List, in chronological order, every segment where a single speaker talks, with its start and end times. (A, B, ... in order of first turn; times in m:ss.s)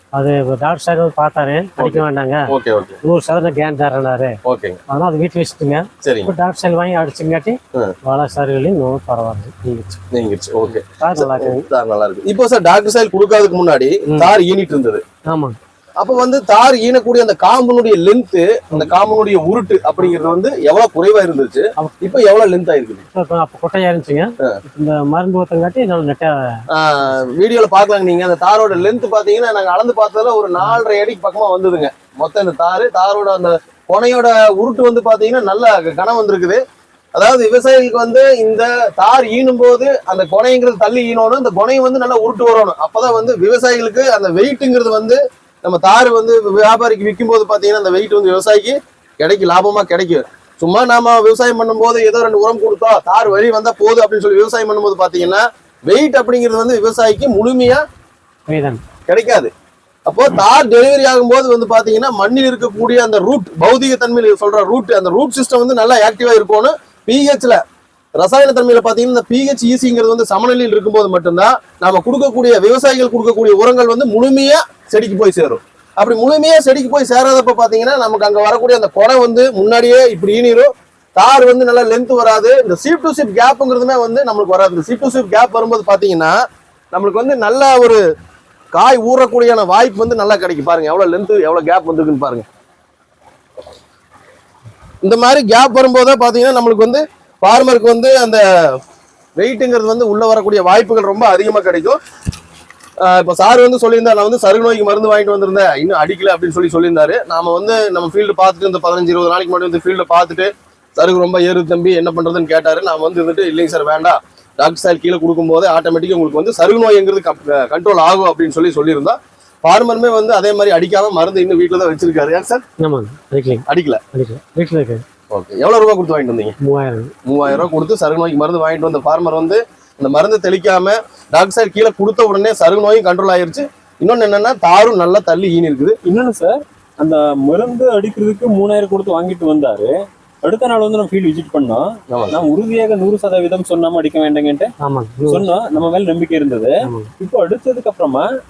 0:00.1-0:02.4 A
0:01.8-0:03.0 B
0:03.0-0:04.4 A
0:04.4-0:04.8 B
0:04.9-0:10.0 A
0:06.0-0:06.3 B
0:10.1-0:15.0 B
0:10.8-0:11.7 A
0:15.3-0:15.6 A
0:16.0-0:23.0 B
0:23.1-0:26.6 A
0:26.7-0:36.6 B
0:37.1-0:57.8 B
0:58.5-0:58.8 A
0:59.1-0:59.5 B
1:00.0-1:07.6 B
1:08.2-1:26.4 B
1:26.9-1:28.0 B
1:28.7-1:32.5 B
1:35.0-1:38.8 B
1:39.4-1:42.0 B
1:43.0-2:02.6 B
2:02.8-2:05.0 A
2:03.7-2:04.0 B
2:05.3-2:06.5 B
2:06.6-2:07.1 A
2:07.2-2:16.0 B
2:16.0-2:24.7 C
2:22.1-2:22.4 B
2:24.8-2:25.5 A
2:25.3-2:28.3 C
2:26.8-2:27.1 A